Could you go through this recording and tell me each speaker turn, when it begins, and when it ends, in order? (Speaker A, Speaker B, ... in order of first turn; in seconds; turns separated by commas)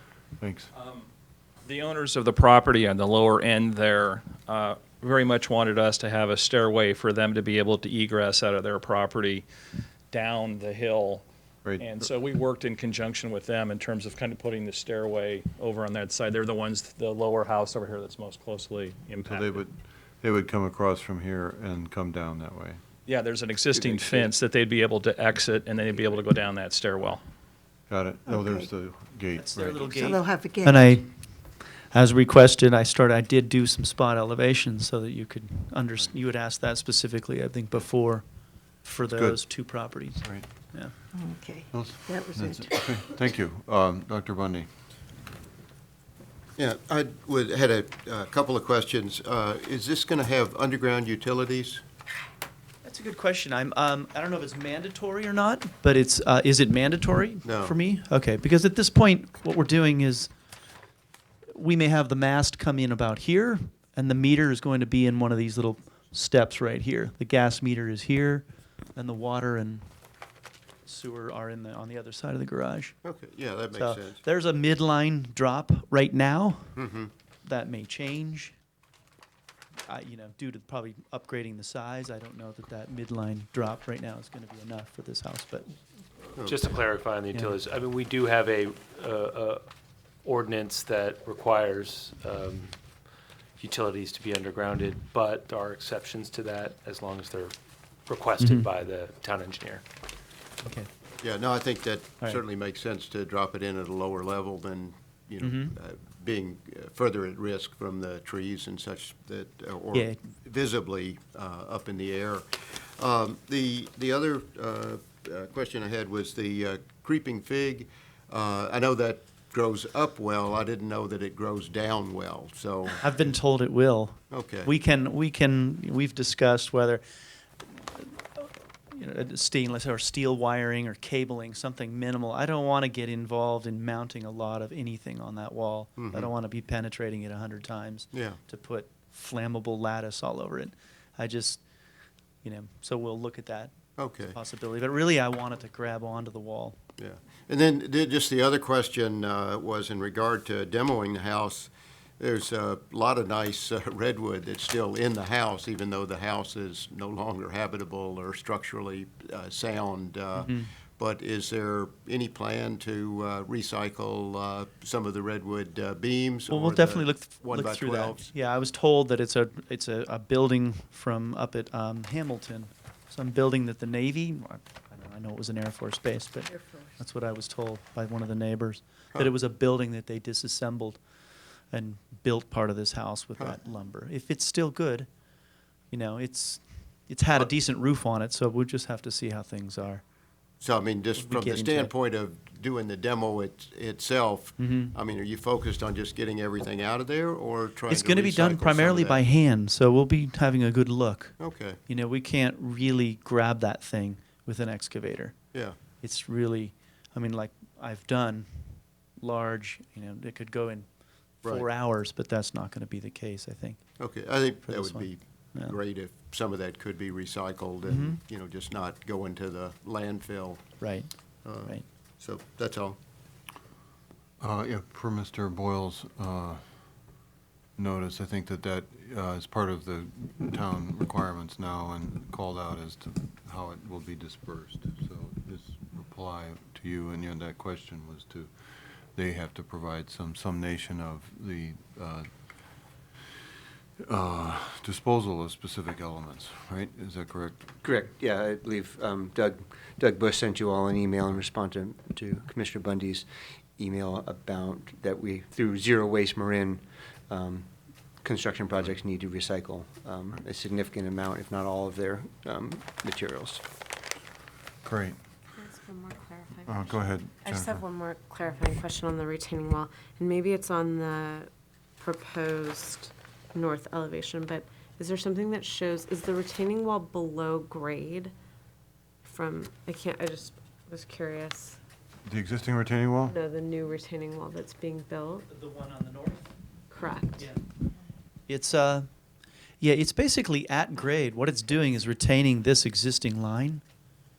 Speaker A: 0.4-0.7, Speaker B: 0.7-1.0, Speaker B: 1.6-9.4, Speaker B: 10.1-11.2, Speaker A: 11.6-11.9, Speaker B: 11.8-19.6, Speaker A: 19.2-22.8, Speaker B: 23.1-27.2, Speaker A: 27.9-29.9, Speaker C: 28.3-28.7, Speaker D: 29.3-31.1, Speaker C: 29.7-31.0, Speaker D: 31.9-38.2, Speaker D: 38.8-40.9, Speaker A: 39.1-39.4, Speaker A: 40.1-40.5, Speaker C: 41.1-42.7, Speaker A: 41.7-44.7, Speaker E: 46.6-51.8, Speaker D: 52.8-60.3, Speaker E: 57.4-57.7, Speaker D: 61.5-69.9, Speaker D: 70.8-73.0, Speaker E: 73.0-74.2, Speaker D: 73.7-76.8, Speaker E: 76.8-77.1, Speaker D: 77.4-78.5, Speaker D: 79.8-85.7, Speaker E: 86.4-86.7, Speaker F: 86.4-89.6, Speaker F: 90.2-92.7, Speaker F: 93.6-97.5, Speaker F: 98.0-99.8, Speaker D: 98.4-98.7, Speaker E: 101.2-123.2, Speaker D: 105.4-105.7, Speaker D: 123.0-127.0, Speaker E: 124.3-124.7, Speaker D: 127.6-141.6, Speaker E: 136.0-136.3, Speaker E: 138.1-138.4, Speaker D: 142.4-146.8, Speaker E: 144.0-144.3, Speaker E: 147.0-168.3, Speaker D: 160.4-160.7, Speaker D: 166.5-181.0, Speaker G: 176.5-176.9, Speaker D: 181.7-185.1, Speaker D: 185.9-190.0, Speaker E: 190.6-199.2, Speaker D: 191.2-191.9, Speaker D: 194.6-194.9, Speaker D: 197.9-205.3, Speaker E: 201.4-201.8, Speaker D: 206.0-210.9, Speaker D: 211.4-213.8, Speaker E: 214.0-220.6, Speaker D: 214.7-215.8, Speaker D: 217.9-218.2, Speaker D: 220.8-221.8, Speaker E: 221.4-223.0, Speaker A: 224.4-226.6, Speaker A: 227.8-242.3, Speaker A: 244.1-248.0, Speaker H: 247.8-257.7, Speaker H: 258.2-263.6, Speaker A: 264.8-265.2, Speaker G: 265.5-278.3, Speaker A: 266.6-267.8, Speaker G: 279.2-281.8, Speaker A: 282.2-283.3, Speaker G: 283.2-285.4, Speaker D: 285.5-286.5, Speaker G: 286.9-287.4, Speaker D: 287.4-287.6, Speaker D: 288.5-289.1, Speaker D: 289.8-293.8